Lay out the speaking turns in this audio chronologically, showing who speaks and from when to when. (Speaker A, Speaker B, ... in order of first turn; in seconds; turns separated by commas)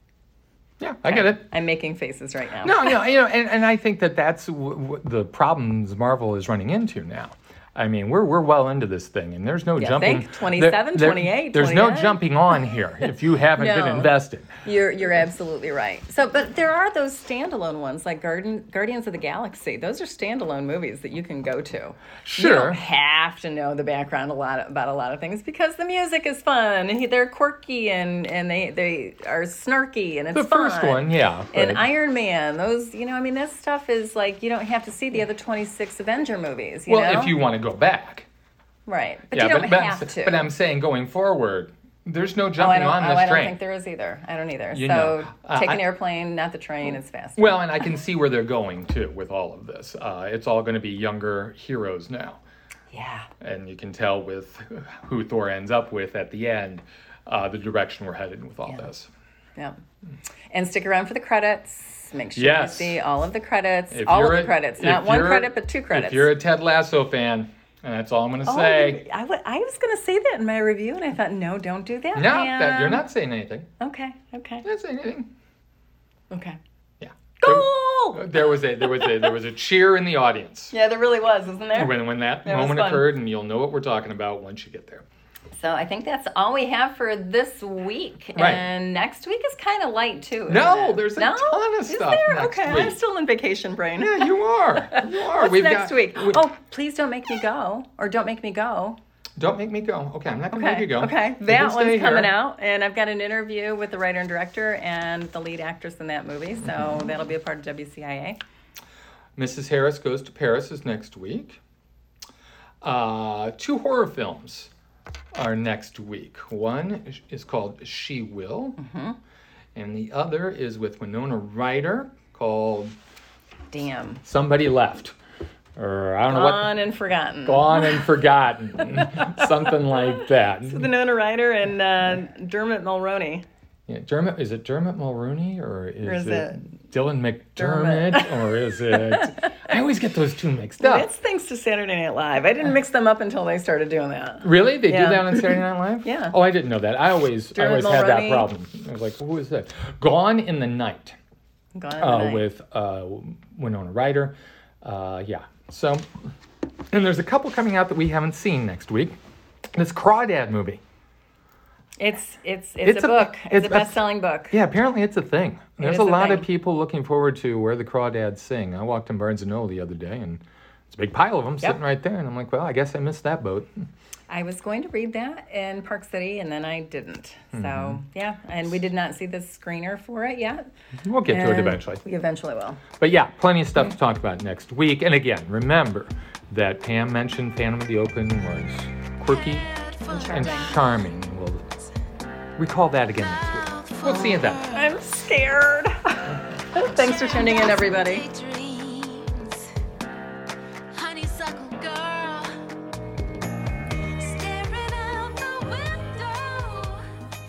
Speaker A: 0.8-1.4, Speaker B: 1.1-3.0, Speaker A: 2.6-14.5, Speaker B: 9.8-12.2, Speaker B: 13.6-14.1, Speaker B: 14.6-37.4, Speaker A: 22.2-22.8, Speaker A: 30.3-31.9, Speaker A: 36.9-38.3, Speaker B: 38.9-40.4, Speaker A: 39.3-43.6, Speaker B: 42.6-47.6, Speaker A: 44.7-45.9, Speaker A: 47.4-52.4, Speaker B: 52.9-53.3, Speaker A: 53.4-59.1, Speaker B: 60.5-66.3, Speaker A: 62.4-63.0, Speaker A: 63.9-69.0, Speaker B: 68.5-73.0, Speaker A: 72.2-73.7, Speaker B: 73.8-74.7, Speaker A: 74.6-75.3, Speaker B: 76.3-76.6, Speaker A: 77.0-80.7, Speaker B: 77.4-79.3, Speaker B: 80.7-83.1, Speaker A: 81.7-85.0, Speaker B: 85.6-99.0, Speaker A: 88.4-88.6, Speaker A: 90.5-93.0, Speaker A: 94.0-96.4, Speaker A: 99.4-102.3, Speaker B: 100.5-108.4, Speaker A: 109.4-111.6, Speaker A: 112.8-114.7, Speaker A: 115.3-118.8, Speaker B: 118.8-119.2, Speaker A: 119.8-123.0, Speaker B: 123.7-124.2, Speaker A: 124.2-125.2, Speaker A: 125.8-126.8, Speaker B: 126.3-128.0, Speaker A: 127.5-130.9, Speaker B: 129.4-133.4, Speaker A: 133.9-141.1, Speaker B: 136.0-136.7, Speaker B: 137.6-139.6, Speaker B: 140.8-146.4, Speaker A: 144.4-151.2, Speaker B: 147.6-148.5, Speaker B: 151.8-152.4, Speaker A: 152.0-156.1, Speaker A: 156.9-159.2, Speaker A: 159.7-160.8, Speaker B: 162.0-164.6, Speaker A: 162.8-164.0, Speaker A: 164.5-173.7, Speaker B: 165.8-166.5, Speaker B: 174.3-180.7, Speaker A: 177.5-178.0, Speaker A: 181.0-182.0, Speaker B: 181.3-182.8, Speaker A: 183.0-189.7, Speaker C: 189.3-191.1, Speaker B: 190.1-190.7, Speaker A: 190.3-191.7, Speaker A: 192.6-194.8, Speaker C: 193.2-195.1, Speaker B: 194.7-198.2, Speaker C: 196.8-199.7, Speaker C: 200.9-202.6, Speaker C: 204.0-207.1